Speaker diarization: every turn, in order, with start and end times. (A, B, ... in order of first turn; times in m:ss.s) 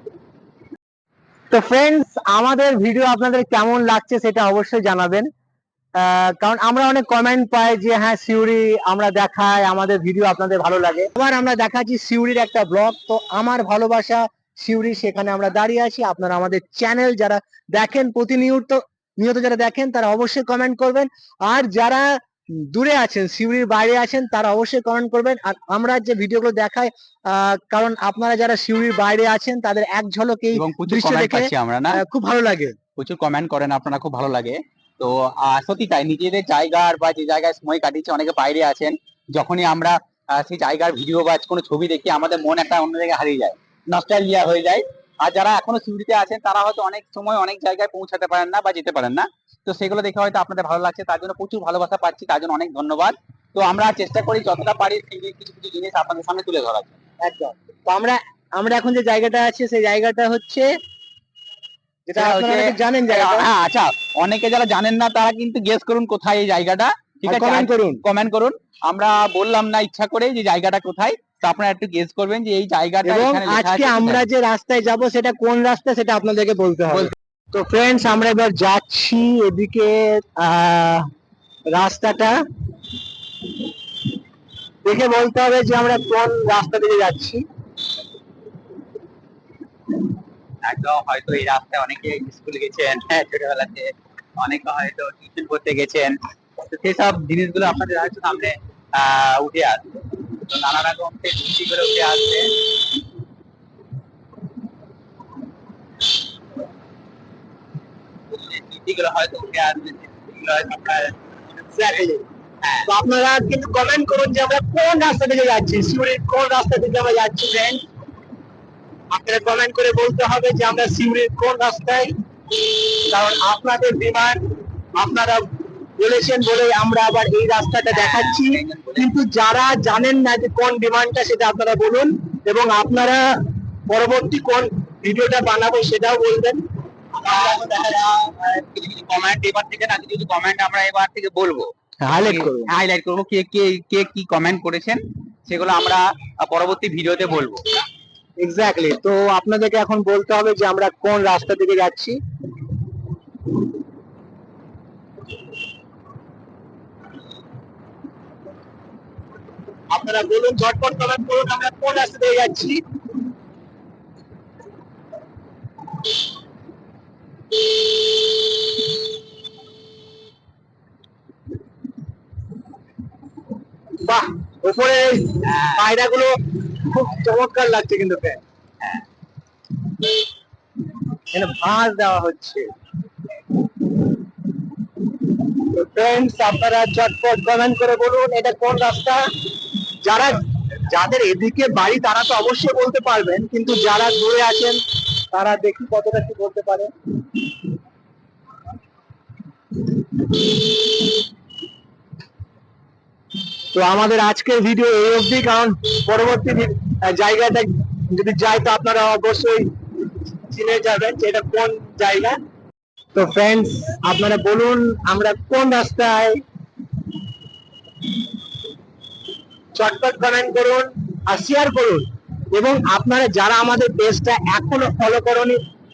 0:01.5-0:05.3 A
0:06.0-0:32.8 A
0:30.5-0:32.0 B
0:33.0-0:57.0 B
0:57.2-1:00.7 A
1:02.1-1:03.5 A
1:02.2-1:14.2 B
1:07.3-1:08.0 A
1:13.0-1:21.1 A
1:21.7-1:22.4 A
1:24.8-1:27.4 A
1:30.6-1:42.6 B
1:48.3-1:51.4 B
1:51.7-1:52.2 A
1:52.8-1:57.8 A
1:59.1-2:04.4 A
2:05.0-2:16.6 A
2:07.9-2:09.1 B
2:17.2-2:27.7 B
2:22.0-2:22.7 A
2:28.4-2:32.2 A
2:39.9-2:42.8 A
2:54.0-2:58.4 A
2:55.4-2:55.9 B
3:01.3-3:02.7 A
3:05.6-3:09.2 A
3:10.0-3:14.8 A
3:15.3-3:16.9 A
3:23.7-3:29.7 A
3:30.4-3:32.4 A
3:33.2-3:36.4 A
3:39.8-3:45.6 A